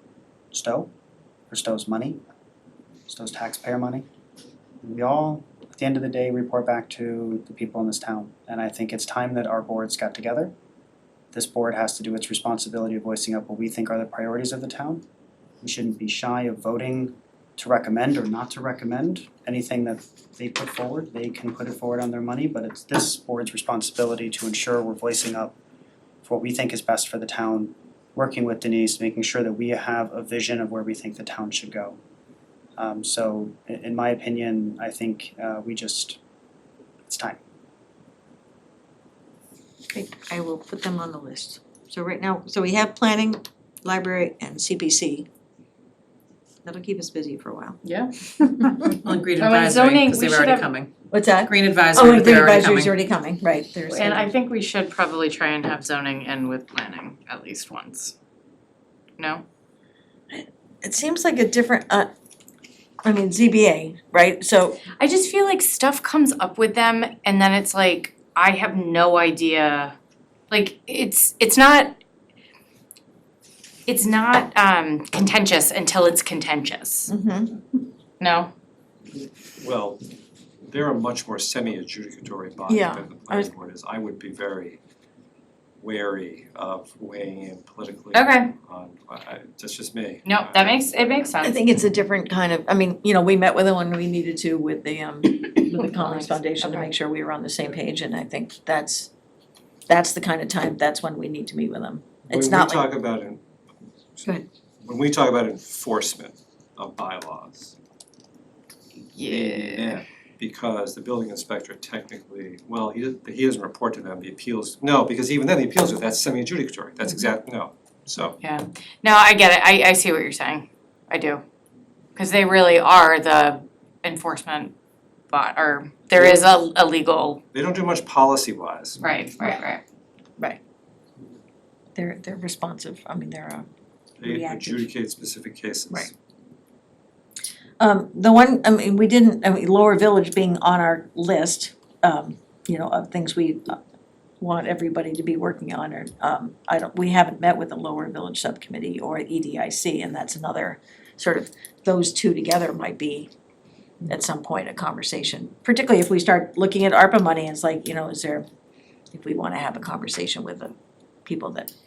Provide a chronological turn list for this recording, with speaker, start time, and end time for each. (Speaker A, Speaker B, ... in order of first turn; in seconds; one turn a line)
Speaker A: 0.5-0.9
Speaker A: 1.5-2.2
Speaker A: 3.1-4.1
Speaker A: 4.8-10.5
Speaker A: 11.3-15.0
Speaker A: 15.6-25.6
Speaker A: 26.2-32.0
Speaker A: 32.8-36.2
Speaker A: 37.1-37.4
Speaker B: 39.9-45.3
Speaker B: 46.6-47.8
Speaker C: 47.8-48.1
Speaker B: 48.4-48.9
Speaker C: 48.6-50.7
Speaker D: 49.0-50.9
Speaker B: 51.1-54.3
Speaker D: 51.5-53.0
Speaker C: 53.9-58.1
Speaker C: 59.2-59.4
Speaker B: 60.3-62.1
Speaker B: 63.0-64.8
Speaker C: 65.0-70.0
Speaker C: 70.5-72.0
Speaker C: 73.9-77.1
Speaker B: 77.1-77.6
Speaker C: 78.2-78.5
Speaker E: 79.6-80.0
Speaker E: 80.7-84.8
Speaker B: 82.7-83.5
Speaker E: 85.8-91.3
Speaker C: 88.1-88.5
Speaker C: 90.2-91.6
Speaker B: 91.4-99.1
Speaker C: 95.4-96.9
Speaker B: 99.9-102.9
Speaker E: 102.3-103.4
Speaker E: 104.8-107.8
Speaker C: 109.2-110.0
Speaker E: 109.2-118.4
Speaker C: 118.4-121.4
Speaker C: 122.2-124.7
Speaker C: 125.3-127.4
Speaker E: 127.5-129.0
Speaker C: 129.0-129.8
Speaker B: 129.4-129.7
Speaker B: 131.9-133.7
Speaker E: 134.2-136.1
Speaker B: 134.2-134.9
Speaker B: 137.8-143.8
Speaker B: 144.4-153.3
Speaker B: 154.1-158.4
Speaker B: 159.1-161.7